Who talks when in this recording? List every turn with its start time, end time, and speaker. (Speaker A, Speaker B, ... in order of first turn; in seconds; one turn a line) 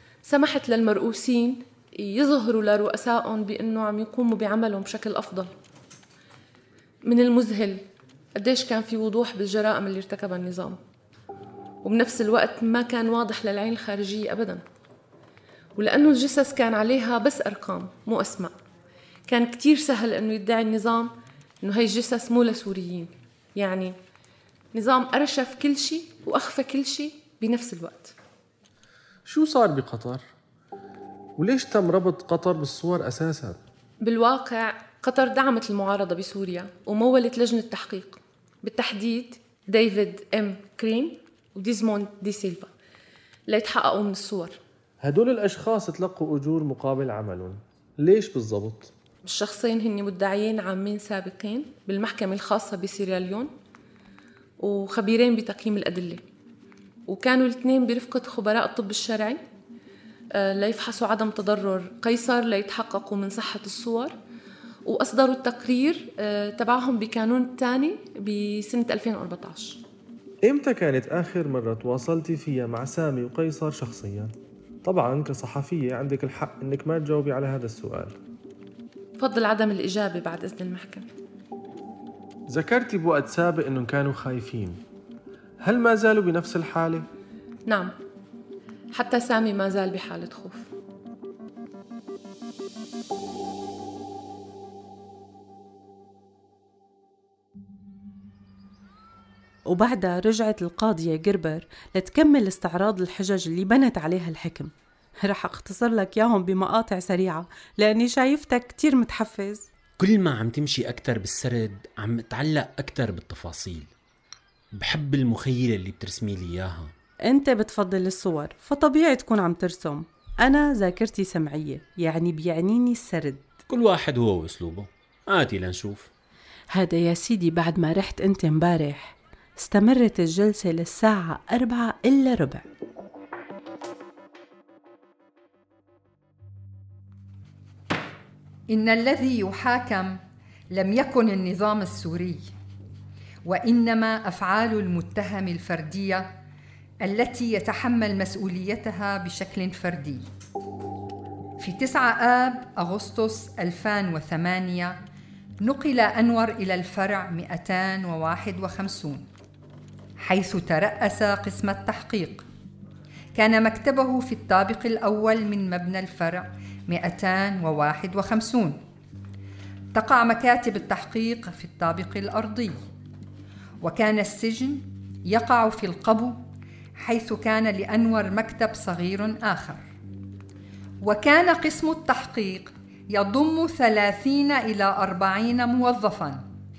Speaker A: 0.2-5.5
Speaker A: 7.0-10.8
Speaker A: 11.8-14.6
Speaker A: 15.8-18.5
Speaker A: 19.3-23.9
Speaker A: 24.7-28.1
Speaker B: 29.2-30.2
Speaker B: 31.4-33.6
Speaker A: 34.0-42.7
Speaker A: 43.5-44.6
Speaker B: 45.0-48.9
Speaker A: 49.2-53.5
Speaker A: 54.6-56.2
Speaker A: 57.1-59.4
Speaker A: 60.3-64.2
Speaker A: 64.8-69.8
Speaker B: 70.4-78.2
Speaker A: 79.2-81.1
Speaker B: 82.5-84.8
Speaker B: 85.6-87.0
Speaker A: 87.7-87.9
Speaker A: 88.9-90.7
Speaker C: 99.7-104.7
Speaker C: 105.2-109.7
Speaker D: 110.0-113.9
Speaker D: 114.7-116.9
Speaker C: 117.2-123.5
Speaker D: 123.7-126.1
Speaker C: 126.7-132.6
Speaker E: 138.7-140.2
Speaker E: 140.7-142.5
Speaker E: 143.4-146.3
Speaker E: 147.0-150.2
Speaker E: 151.6-155.0
Speaker E: 155.6-159.2
Speaker E: 160.2-162.4
Speaker E: 163.3-168.8
Speaker E: 169.9-172.8
Speaker E: 173.8-176.4
Speaker E: 177.0-179.8
Speaker E: 181.0-186.4